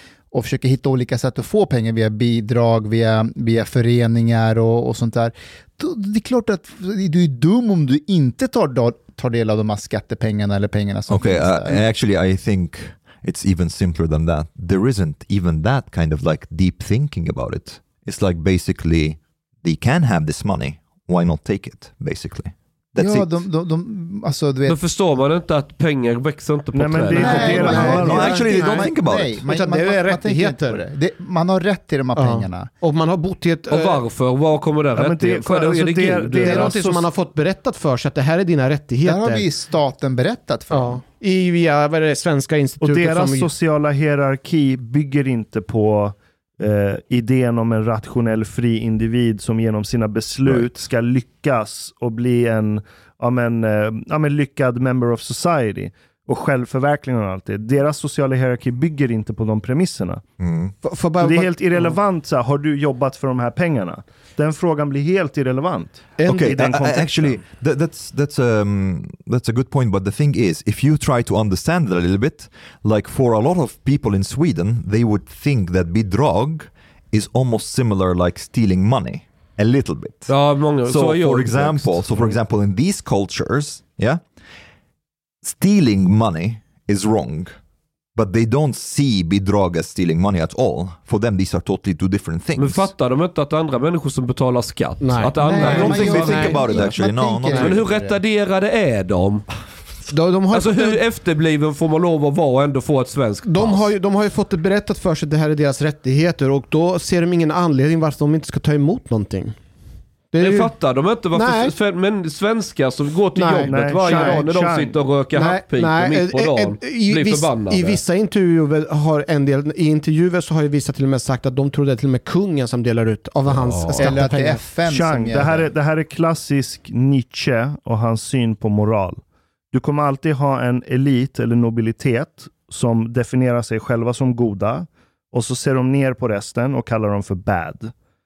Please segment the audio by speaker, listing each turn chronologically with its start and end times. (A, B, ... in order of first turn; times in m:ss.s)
0:00.3-0:11.8 A
0:11.1-0:23.4 B
0:23.0-0:24.8 A
0:24.7-0:27.9 C
0:26.7-0:28.5 D
0:27.2-0:32.7 A
0:27.2-0:28.9 E
0:27.5-0:29.4 B
0:29.5-0:30.8 E
0:32.2-0:34.0 E
0:33.7-0:36.8 C
0:35.0-0:37.1 D
0:36.4-0:39.5 E
0:39.0-0:41.0 A
0:40.7-0:43.5 E
0:42.8-1:00.2 D
1:00.4-1:00.8 B
1:00.8-1:01.9 E
1:01.2-1:07.4 D
1:06.2-1:20.3 B
1:20.3-1:22.3 C
1:20.8-1:24.2 B
1:25.4-1:27.5 B
1:28.2-1:32.9 B
1:32.6-1:36.4 C
1:35.0-1:36.9 E
1:35.4-1:38.2 A
1:35.5-1:37.8 B
1:37.6-1:39.5 C
1:40.1-1:41.0 E
1:40.5-1:43.9 C
1:43.5-1:49.6 E
1:50.3-1:50.7 E
1:50.4-1:58.0 C
1:51.3-1:51.7 E
1:53.4-1:54.5 E
1:53.7-1:55.0 D
1:55.3-2:04.6 E
2:03.5-2:04.2 C
2:04.0-2:05.7 A
2:04.9-2:17.9 D